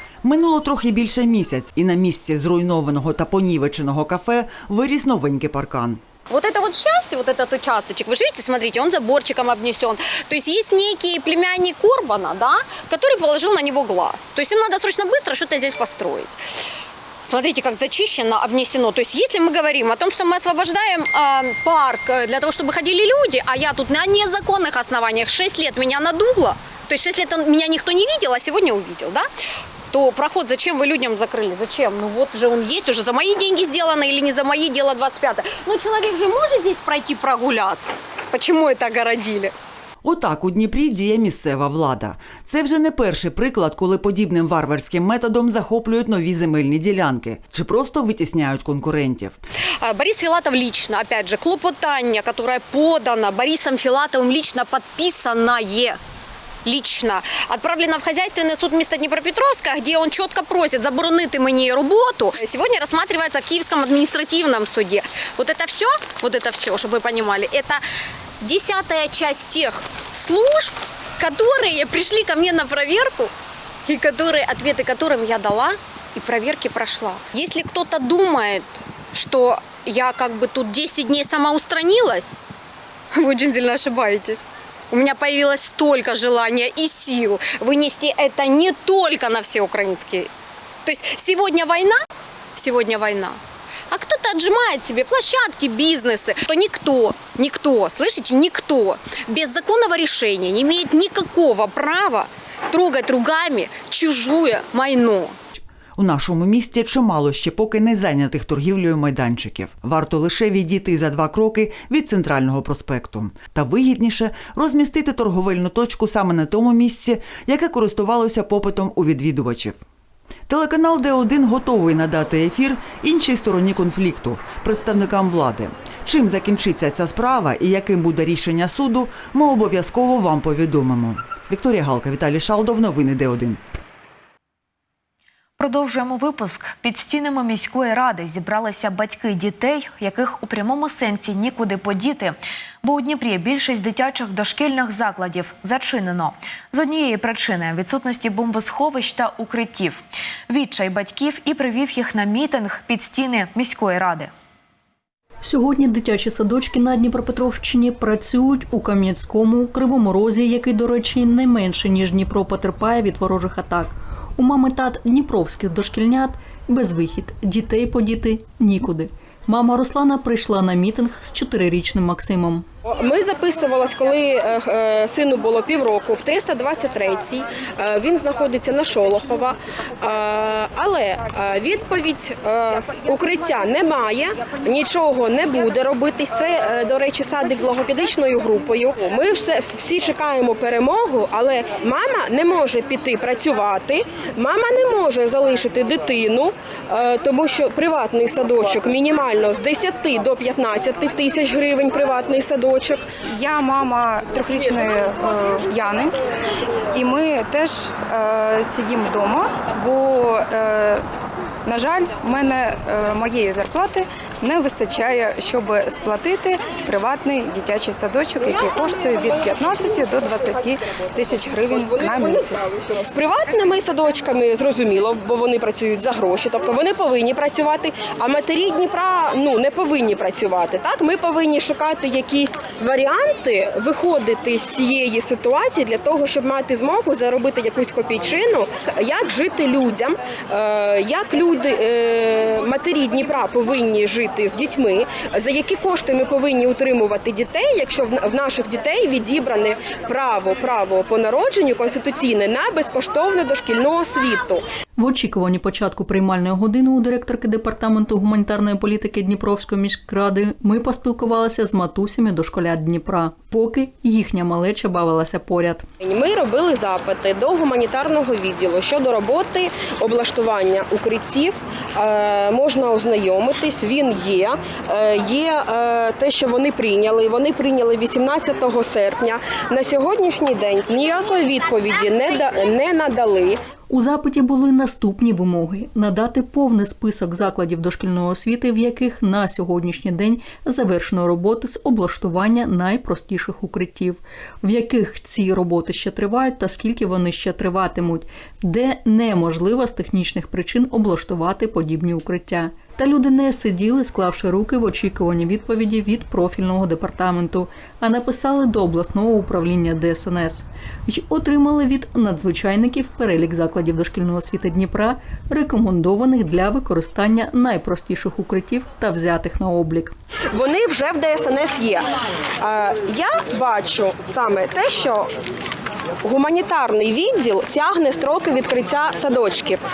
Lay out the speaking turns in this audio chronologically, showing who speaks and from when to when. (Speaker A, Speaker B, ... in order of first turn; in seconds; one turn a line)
Speaker A: 0.2-6.0
Speaker B: 6.3-16.4
Speaker B: 17.2-29.2
Speaker B: 29.9-39.5
Speaker A: 40.0-49.4
Speaker B: 49.8-56.0
Speaker B: 56.6-67.8
Speaker B: 68.4-73.3
Speaker B: 73.8-82.3
Speaker B: 83.1-90.3
Speaker B: 90.8-92.0
Speaker B: 92.6-93.4
Speaker B: 93.9-105.3
Speaker A: 106.0-119.8
Speaker A: 120.5-133.6
Speaker C: 135.6-154.3
Speaker D: 155.4-172.6
Speaker E: 172.8-203.1
Speaker F: 203.2-206.2
Speaker F: 206.9-211.0
Speaker F: 211.7-222.7
Speaker E: 222.9-254.6
Speaker D: 255.0-265.8
Speaker E: 266.0-283.6
Speaker D: 283.9-320.1
Speaker E: 320.5-322.1
Speaker E: 322.6-325.3
Speaker E: 326.2-329.8